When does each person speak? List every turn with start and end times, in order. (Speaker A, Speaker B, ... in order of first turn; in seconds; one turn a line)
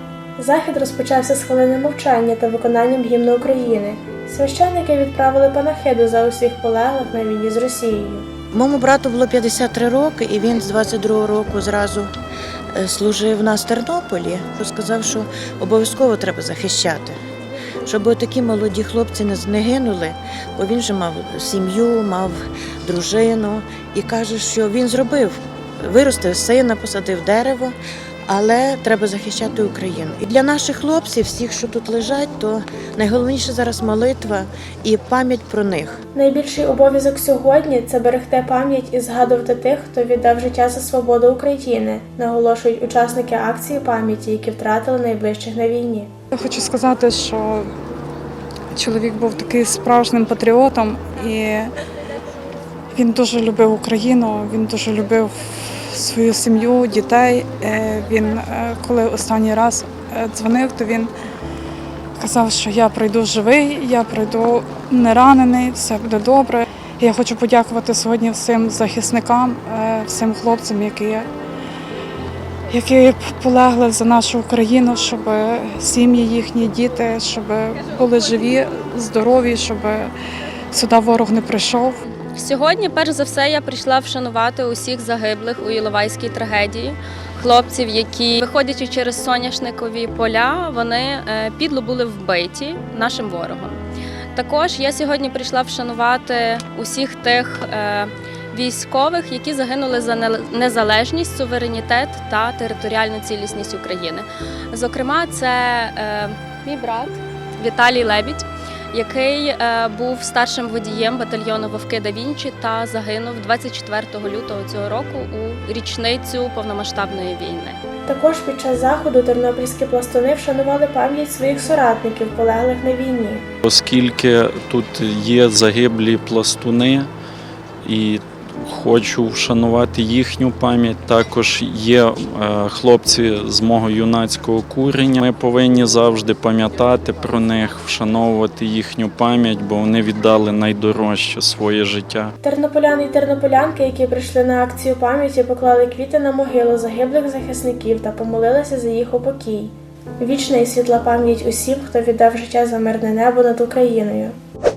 Speaker A: 0.4-8.3
Speaker B: 8.5-12.1
Speaker B: 12.7-17.2
Speaker B: 17.8-27.8
Speaker B: 28.3-36.0
Speaker A: 36.1-46.1
Speaker C: 46.3-47.7
Speaker C: 48.7-51.7
Speaker C: 52.9-61.1
Speaker C: 62.2-71.3
Speaker C: 72.7-80.1
Speaker C: 80.7-82.0
Speaker D: 82.3-93.8
Speaker D: 94.3-117.8
Speaker A: 118.1-123.4
Speaker E: 123.6-127.1
Speaker E: 127.8-142.3
Speaker A: 142.4-154.3